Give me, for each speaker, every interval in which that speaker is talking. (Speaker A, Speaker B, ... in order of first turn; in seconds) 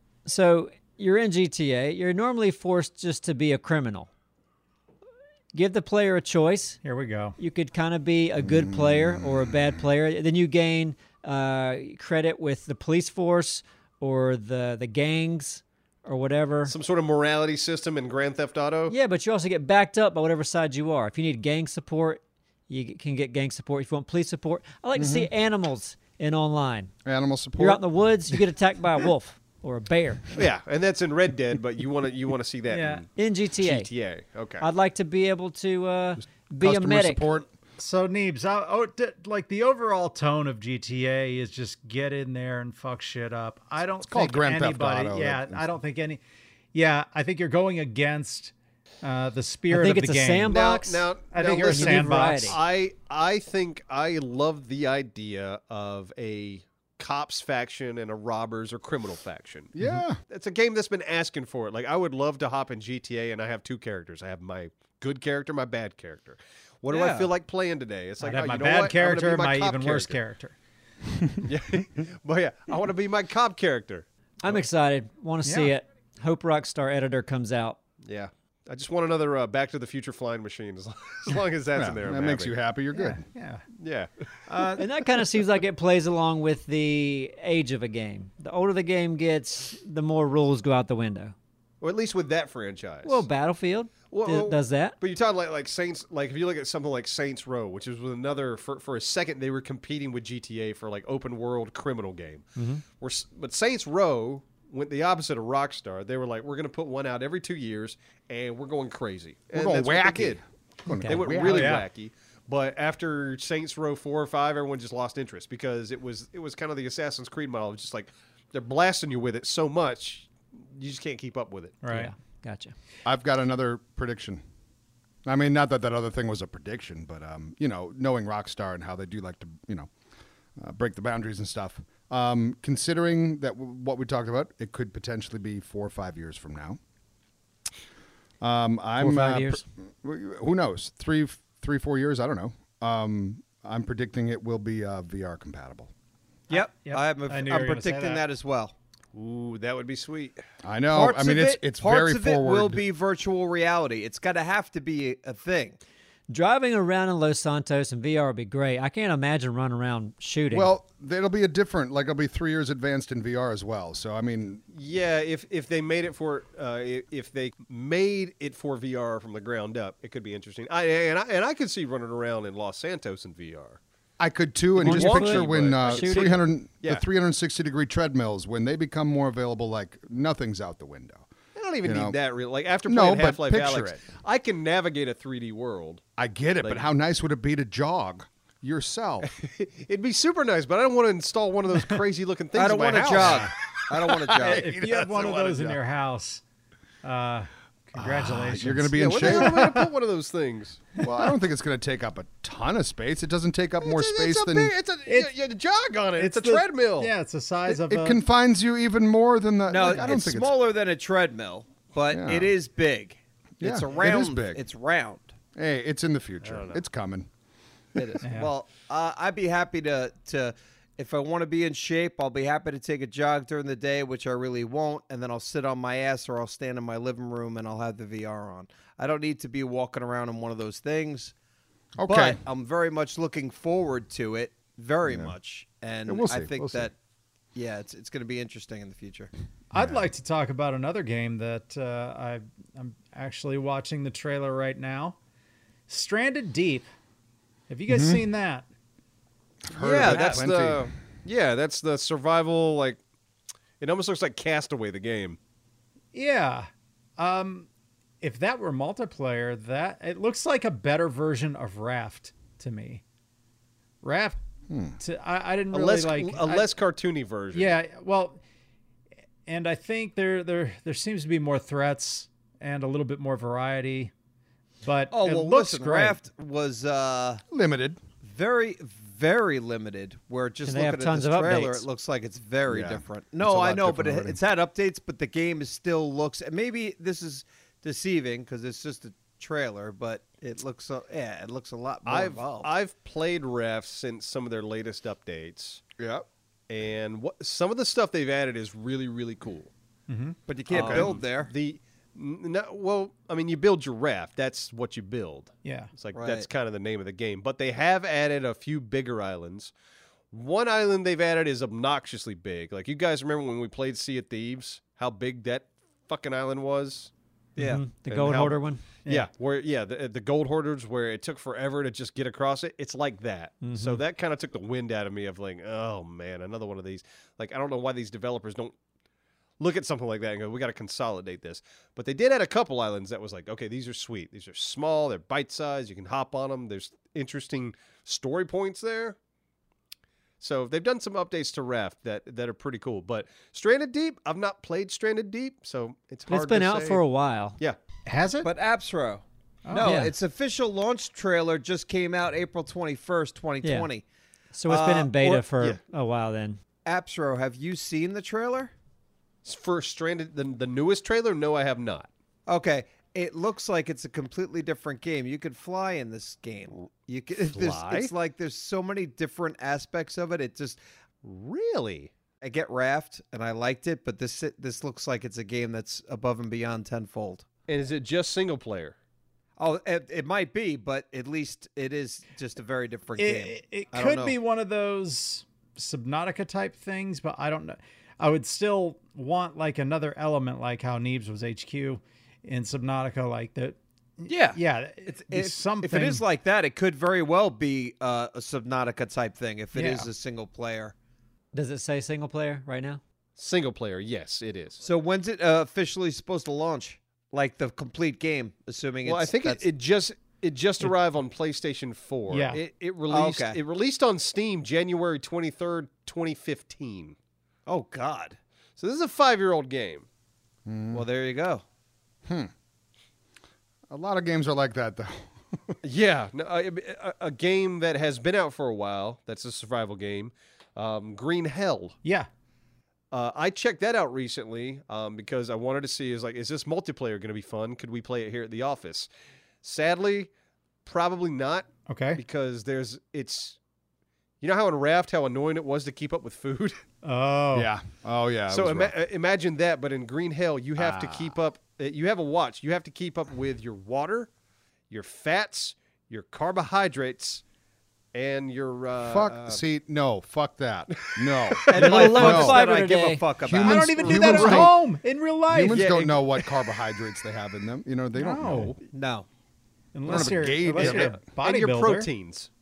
Speaker A: 0.2-4.1, 5.5-6.8, 7.4-16.8, 18.9-26.9, 27.6-30.4, 33.2-33.9, 34.6-37.3, 49.7-51.1, 51.6-52.6, 74.4-77.8, 84.8-91.3, 93.0-94.9, 121.9-122.7, 139.0-139.6, 156.3-160.7, 174.8-176.4, 280.6-281.9, 317.6-318.8, 323.6-324.0, 346.3-347.6, 349.8-350.1, 353.6-353.9, 354.5-356.6, 401.5-403.0, 461.7-463.2
Speaker B: 6.8-7.4, 32.7-33.0, 37.8-46.2, 46.7-50.5, 51.3-52.6, 68.2-70.5, 75.4-75.7, 82.9-83.6, 84.5-84.9, 111.4-111.9, 121.8-122.1, 146.5-148.2, 193.1-193.5, 194.4-196.4, 197.0-199.9, 205.1-205.3, 206.2-208.2, 218.2-218.5, 239.7-245.2, 245.9-246.9, 247.7-248.7, 256.1-257.7, 258.2-263.0, 264.0-264.4, 265.0-266.7, 267.5-268.4, 269.5-274.1, 274.8-276.2, 300.1-300.4, 305.6-305.9, 348.1-348.5, 349.7-350.0, 383.2-396.2, 399.7-400.1, 412.3-412.6, 432.0-432.3, 441.9-442.2, 447.0-447.7, 463.6-465.9, 468.1-468.8, 469.9-472.1
Speaker C: 8.4-9.8, 24.9-25.3, 27.1-28.4, 36.2-37.5, 44.1-45.7, 59.8-60.2, 81.8-83.3, 109.5-111.8, 123.0-124.4, 125.2-129.9, 130.6-136.8, 138.4-145.9, 150.6-152.8, 160.5-164.6, 174.2-181.3, 181.8-182.2, 182.9-184.0, 186.2-189.3, 194.6-195.7, 198.0-199.8, 201.0-204.7, 207.7-210.5, 212.1-212.5, 213.6-214.6, 215.6-217.3, 232.0-232.4, 235.1-235.3, 236.1-236.9, 239.8-240.0, 247.9-248.2, 249.6-250.9, 264.7-265.0, 277.5-278.0, 282.7-284.4, 296.0-296.2, 300.7-301.1, 420.7-421.0, 422.3-422.5, 423.9-425.8, 447.5-448.9, 450.8-451.3, 459.0-462.6, 463.4-464.8, 465.5-468.8, 470.1-471.2
Speaker D: 16.7-18.9, 30.3-33.1, 33.6-34.7, 50.5-70.2, 71.4-74.7, 78.0-82.5, 83.8-84.7, 91.8-93.2, 94.1-110.4, 111.0-121.8, 149.1-150.4, 164.7-173.8, 174.8-177.0, 181.6-186.0, 189.3-193.6, 194.3-195.8, 199.0-201.1, 203.8-207.1, 216.4-216.8, 249.8-253.0, 253.8-255.4, 265.7-267.8, 292.1-295.8, 296.7-299.7, 300.7-309.7, 310.3-317.1, 318.1-328.8, 329.6-339.2, 340.4-347.0, 359.4-362.1, 367.4-368.1, 371.2-372.1, 377.7-378.9, 403.4-404.8, 409.1-417.2, 418.8-420.1, 425.8-432.0, 433.1-439.1, 439.6-440.3, 440.9-443.6, 444.4-446.8, 448.5-454.3, 454.9-457.4, 458.1-459.6, 460.9-462.1, 464.3-464.6, 465.7-466.7, 470.2-472.5
Speaker E: 66.9-67.3, 146.5-148.7, 150.9-155.8, 192.6-194.7, 209.7-215.4, 218.0-231.3, 232.1-236.9, 237.6-239.3, 249.8-250.5, 275.1-277.4, 278.2-292.7, 300.5-301.5, 306.1-306.5, 317.6-317.8, 348.4-354.1, 354.7-355.4, 356.9-358.7, 362.5-370.8, 372.4-377.4, 379.6-384.4, 394.3-400.9, 404.8-409.6, 413.1-413.6, 417.7-418.4, 420.9-421.6, 461.7-464.4, 468.9-469.3